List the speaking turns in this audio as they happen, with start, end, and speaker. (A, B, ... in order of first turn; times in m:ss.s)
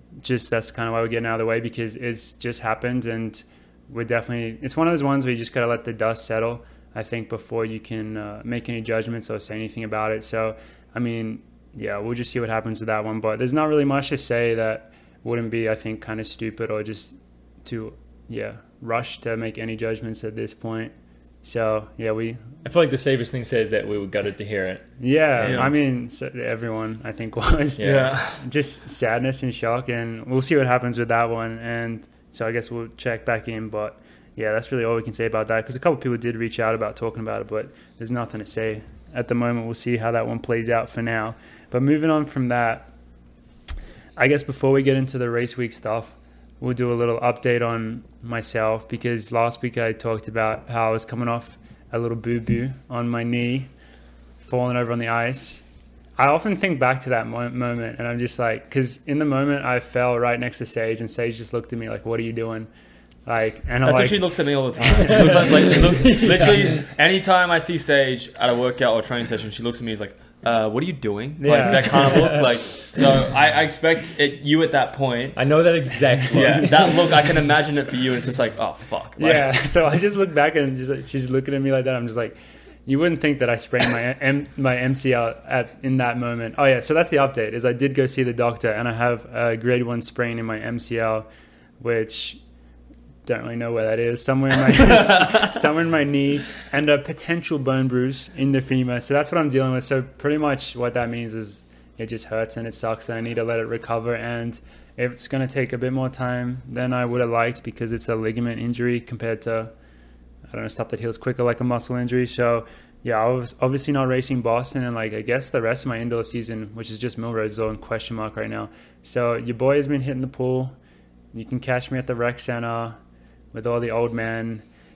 0:00.2-0:22.4 A
0:22.6-0:25.7 B
0:25.0-0:42.9 A
0:25.4-0:25.7 C
0:27.8-0:28.1 B
0:27.8-0:28.4 C
0:44.2-0:53.7 A
0:54.4-0:55.6 A
0:56.2-1:02.7 A
1:03.2-1:05.4 A
1:03.8-1:15.4 C
1:05.0-1:06.9 B
1:11.4-1:12.2 A
1:11.6-1:12.4 B
1:15.4-1:17.3 B
1:16.3-1:19.5 C
1:19.2-1:31.2 A
1:31.8-1:32.4 A
1:33.2-1:49.7 A
1:34.8-1:35.4 C
1:50.5-2:00.7 A
2:01.3-2:03.0 A
2:03.5-2:04.6 A